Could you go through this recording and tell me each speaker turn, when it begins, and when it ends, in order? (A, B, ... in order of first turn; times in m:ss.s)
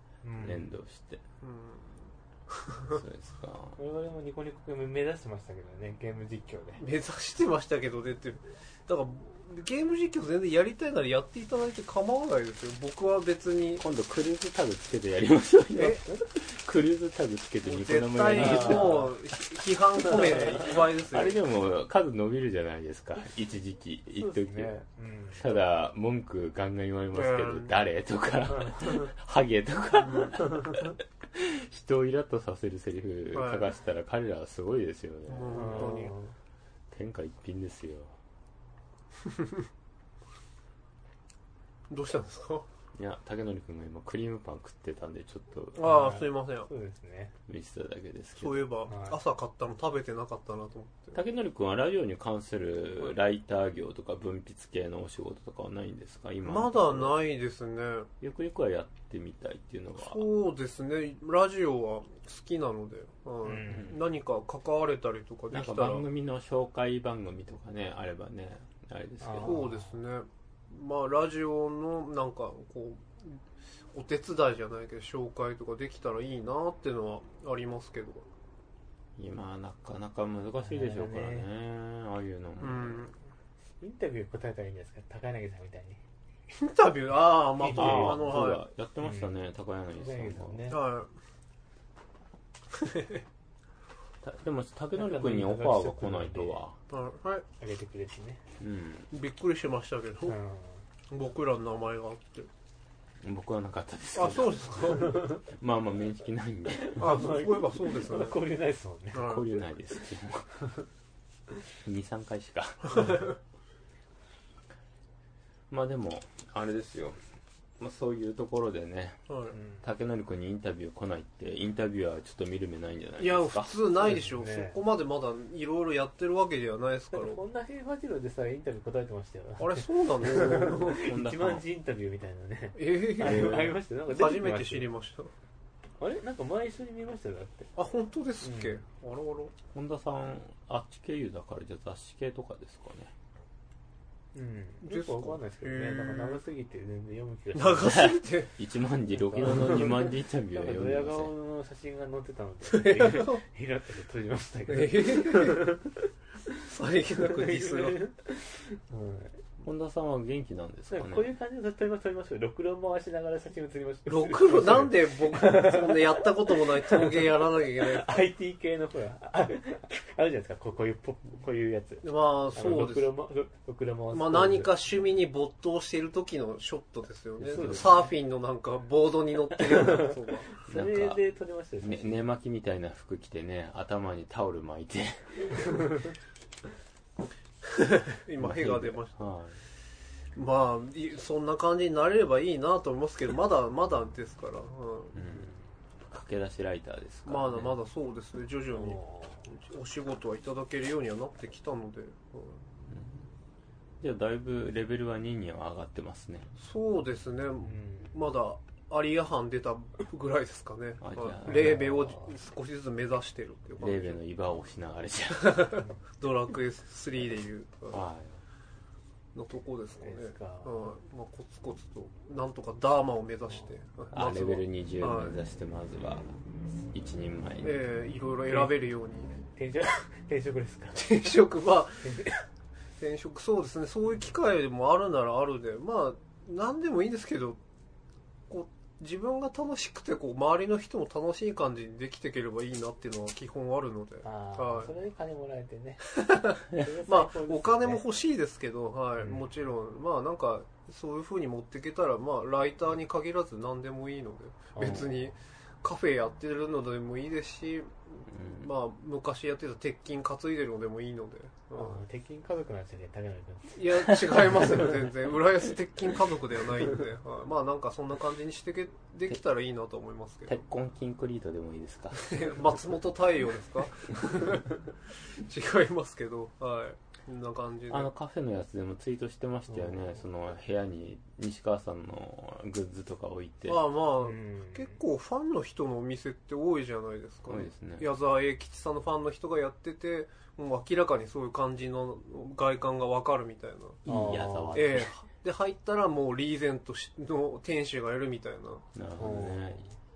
0:00.2-0:00.7 A
0:00.4-0:01.2 B
0:01.4-0:03.0 C
0:02.8-0:03.8 B
0:03.8-0:06.8 A
0:06.8-0:13.8 C
0:13.8-0:19.2 B
0:15.7-0:16.0 C
0:17.6-0:21.4 C
0:18.3-0:19.1 A
0:20.2-0:20.5 A
0:21.1-0:24.8 B
0:24.1-0:25.4 A
0:25.4-0:36.1 B
0:27.1-0:27.7 C
0:28.5-0:29.1 A
0:30.0-0:30.3 C
0:33.3-0:33.7 C
0:35.3-0:36.1 C
0:35.5-0:36.3 A
0:36.9-0:38.1 B
0:39.2-0:39.6 C
0:41.9-0:42.6 C
0:42.9-0:46.0 B
0:45.8-0:46.7 C
0:45.8-0:47.3 A
0:47.5-0:48.6 B
0:48.4-0:51.2 C
0:48.9-0:49.2 A
0:51.1-0:57.2 B
0:56.4-0:58.1 C
0:58.2-1:00.2 B
1:00.0-1:06.0 C
1:03.4-1:03.9 A
1:03.7-1:04.0 B
1:05.5-1:09.6 B
1:09.2-1:09.9 A
1:09.4-1:13.4 C
1:13.9-1:18.3 C
1:19.2-1:23.0 B
1:20.6-1:21.5 A
1:22.6-1:23.1 C
1:23.8-1:26.0 A
1:26.5-1:28.6 C
1:27.6-1:28.3 A
1:27.7-1:30.6 B
1:29.0-1:29.3 A
1:30.0-1:30.8 A
1:30.7-1:31.1 C
1:32.7-1:33.2 C
1:34.2-1:36.8 B
1:35.0-1:36.6 A
1:36.9-1:37.4 C
1:37.6-1:38.4 A
1:38.6-1:39.1 B
1:39.1-1:40.4 C
1:40.2-1:40.8 A
1:41.1-1:42.5 C
1:43.2-1:47.2 B
1:44.1-1:45.3 C
1:46.8-1:49.3 A
1:47.0-1:48.4 C
1:49.1-1:49.4 C
1:49.1-1:50.5 B
1:51.8-1:53.2 B
1:52.9-1:53.3 C
1:55.7-1:57.2 B
1:57.8-1:59.2 B
1:59.3-1:59.6 C
1:59.5-1:59.8 A
1:59.8-2:03.7 B
2:03.2-2:07.4 C
2:04.0-2:04.8 A
2:07.1-2:14.9 A
2:09.6-2:11.0 C
2:10.6-2:11.6 B
2:12.8-2:15.3 C
2:13.2-2:13.7 B
2:16.0-2:17.7 A
2:17.8-2:19.5 C
2:18.4-2:18.8 A
2:19.7-2:23.1 B
2:24.3-2:28.0 A
2:24.8-2:26.4 C
2:27.5-2:28.5 C
2:27.9-2:31.3 B
2:29.1-2:36.5 A
2:32.7-2:33.4 C
2:34.7-2:35.7 C
2:36.6-2:38.0 C
2:37.2-2:39.4 A
2:39.6-2:41.3 B
2:40.9-2:54.7 A
2:44.1-2:48.1 C
2:52.0-2:53.1 C
2:54.1-3:00.5 C
2:57.4-2:58.1 A
2:59.6-3:02.2 A
3:00.7-3:01.2 B
3:01.8-3:05.8 B
3:07.6-3:09.2 C
3:08.4-3:09.6 B
3:10.4-3:15.2 C
3:15.1-3:15.5 B
3:15.3-3:15.6 A
3:16.1-3:17.8 B
3:17.2-3:22.6 C
3:18.7-3:19.5 A
3:22.9-3:23.3 B
3:24.0-3:26.5 B
3:26.6-3:34.2 C
3:27.6-3:28.2 A
3:31.0-3:31.8 B
3:31.5-3:32.3 A
3:33.8-3:35.8 B
3:35.4-3:38.0 C
3:37.9-3:38.4 B
3:39.3-3:45.4 C
3:40.0-3:40.7 A
3:44.1-3:46.3 B
3:46.9-3:47.8 B
3:47.6-3:49.3 C
3:49.5-3:51.4 A
3:50.9-3:52.2 C
3:52.0-3:52.4 A
3:53.0-3:57.6 C
3:58.5-4:04.9 C
4:04.2-4:06.2 A
4:06.1-4:22.0 C
4:06.7-4:08.0 A
4:09.2-4:09.5 A
4:14.8-4:15.2 A
4:18.3-4:18.7 B
4:21.8-4:24.9 A
4:23.7-4:30.6 C
4:30.5-4:32.4 B
4:32.2-4:38.1 C
4:37.9-4:43.8 B
4:39.7-4:40.1 A
4:43.7-4:54.0 C
4:44.2-4:45.0 A
4:47.5-4:48.1 B
4:54.0-4:55.1 B
4:54.0-4:55.0 A
4:54.7-4:58.8 C
4:58.9-4:59.8 B
4:59.2-5:00.0 A